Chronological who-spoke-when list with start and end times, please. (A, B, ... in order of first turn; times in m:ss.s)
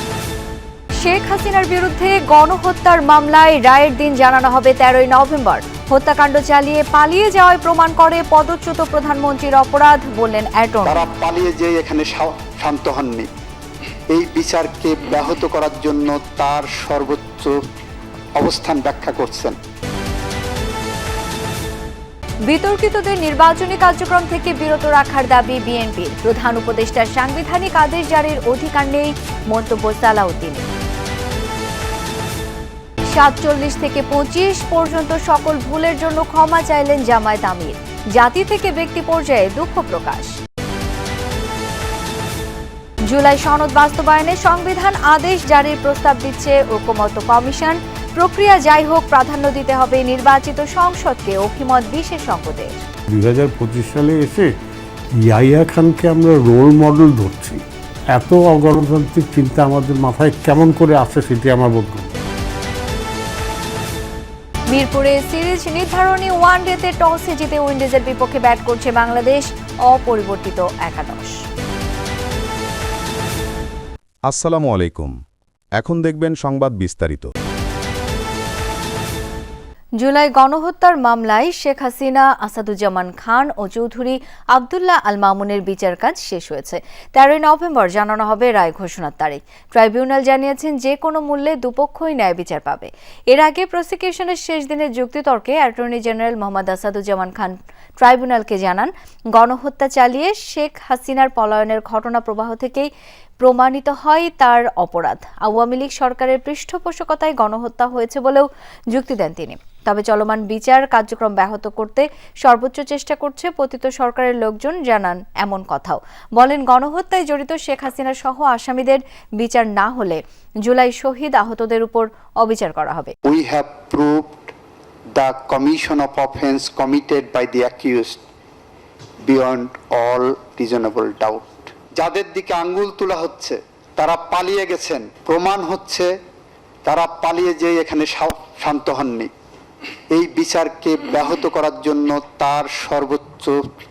0:01.0-0:11.1 A
0:10.8-0:13.3 B
0:14.1-0:17.6 B
0:18.4-0:19.6 B
0:22.5-0:30.7 A
0:33.1-0:40.4 A
0:43.1-0:52.8 A
0:53.1-0:54.5 C
0:55.2-0:57.6 C
0:58.2-1:02.1 C
1:04.7-1:11.4 A
1:14.3-1:15.2 D
1:14.3-1:15.1 B
1:15.8-1:17.3 D
1:15.9-1:17.1 B
1:20.0-2:03.1 A
2:03.2-2:04.5 B
2:05.1-2:08.2 B
2:09.2-2:11.4 B
2:12.0-2:16.1 B
2:16.8-2:19.3 B
2:20.1-2:23.7 B